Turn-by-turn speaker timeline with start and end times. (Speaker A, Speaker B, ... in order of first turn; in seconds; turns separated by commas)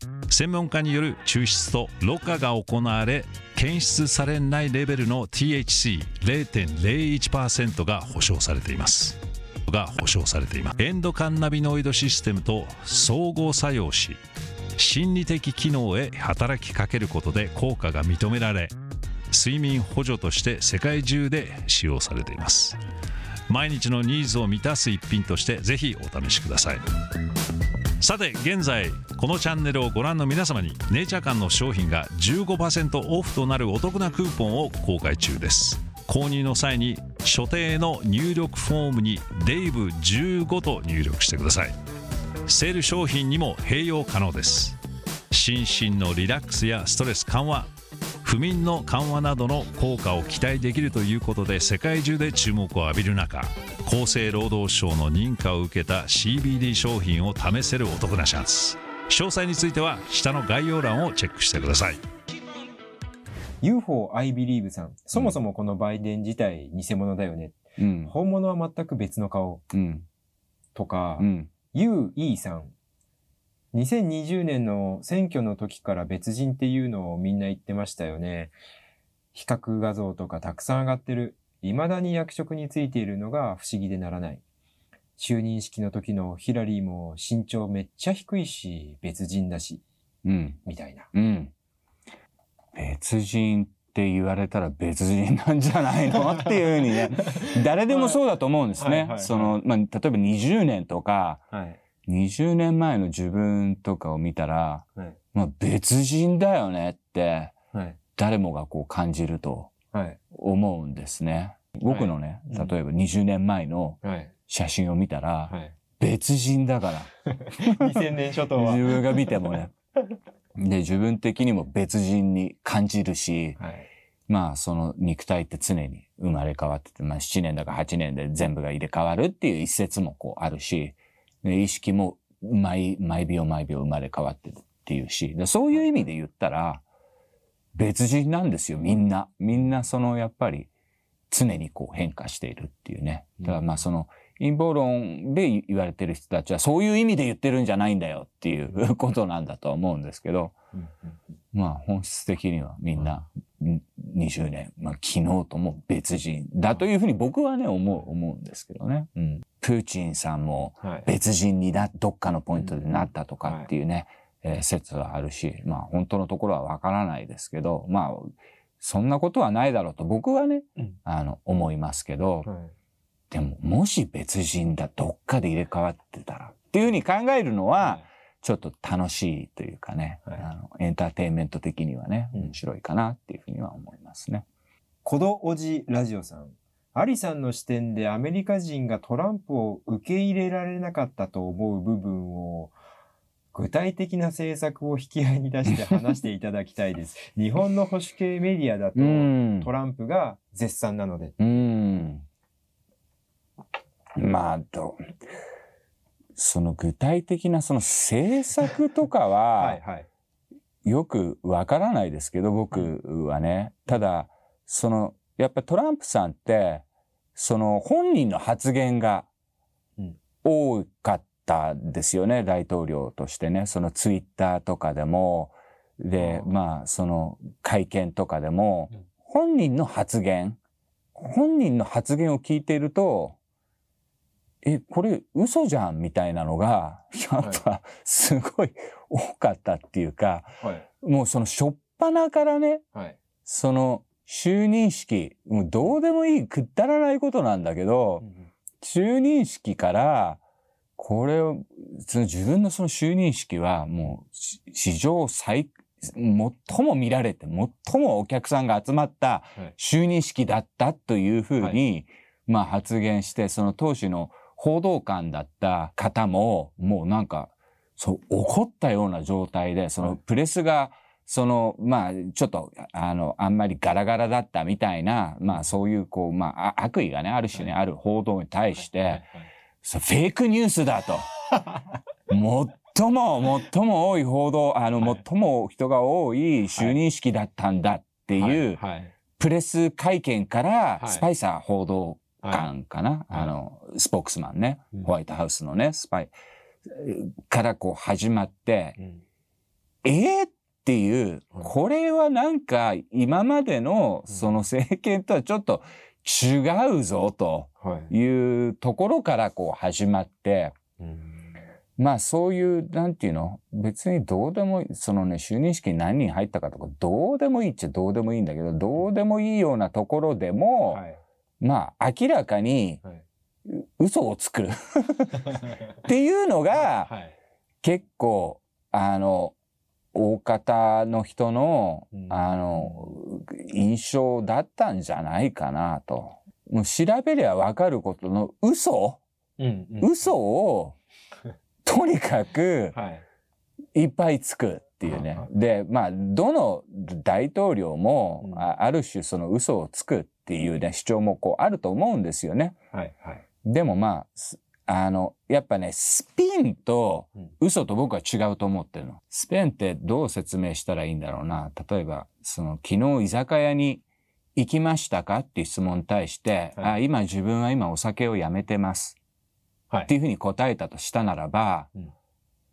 Speaker A: 0.3-14.2, Speaker A: 14.8-18.7, Speaker A: 19.3-22.8, Speaker A: 23.5-26.8, Speaker A: 28.0-41.7, Speaker A: 42.5-44.8, Speaker A: 45.3-47.7, Speaker A: 48.2-62.0, Speaker B: 63.6-69.6, Speaker C: 67.8-68.1, Speaker C: 69.7-70.1, Speaker B: 70.7-72.7, Speaker C: 71.2-71.5, Speaker B: 73.7-78.5, Speaker B: 79.3-84.4, Speaker B: 85.2-89.8, Speaker C: 90.2-90.6, Speaker B: 90.6-91.1, Speaker C: 91.1-91.5, Speaker C: 92.7-101.5, Speaker B: 97.9-98.1, Speaker B: 98.8-99.5, Speaker B: 101.5-101.8, Speaker C: 102.0-107.5, Speaker B: 107.7-108.0, Speaker C: 108.1-109.7, Speaker B: 109.9-110.2, Speaker C: 110.3-119.7, Speaker B: 111.9-112.7, Speaker B: 114.0-114.3, Speaker B: 117.5-119.3, Speaker C: 120.5-123.6, Speaker B: 123.6-123.9, Speaker C: 124.3-136.8, Speaker C: 137.7-140.7, Speaker C: 141.3-150.6, Speaker B: 150.7-151.2, Speaker C: 151.5-172.5, Speaker B: 160.8-161.1, Speaker C: 173.3-184.4, Speaker B: 185.0-192.7, Speaker B: 193.5-201.3, Speaker C: 198.9-199.7, Speaker C: 201.4-202.2, Speaker C: 204.2-205.0, Speaker C: 206.3-209.8, Speaker B: 209.6-210.1, Speaker C: 210.8-219.3, Speaker C: 220.4-230.6, Speaker C: 231.2-233.4, Speaker C: 234.6-242.8, Speaker B: 240.6-240.8, Speaker C: 243.4-248.2, Speaker C: 248.8-250.4, Speaker C: 251.0-279.2, Speaker B: 279.1-279.5, Speaker C: 279.8-281.3, Speaker C: 282.3-288.8, Speaker B: 288.4-289.1, Speaker C: 289.3-296.3, Speaker C: 296.9-299.0, Speaker C: 300.0-310.8, Speaker B: 307.8-308.1, Speaker B: 311.0-311.4, Speaker C: 312.0-321.0, Speaker B: 320.9-321.2, Speaker C: 321.6-323.0, Speaker C: 323.7-327.1, Speaker B: 327.1-327.3, Speaker C: 327.8-329.6, Speaker C: 330.1-339.2, Speaker B: 339.6-340.1, Speaker C: 340.0-341.0, Speaker C: 341.8-343.0, Speaker B: 342.9-343.2, Speaker C: 343.9-352.8, Speaker B: 352.9-353.4, Speaker C: 353.6-364.0, Speaker C: 364.6-369.2, Speaker C: 370.1-371.9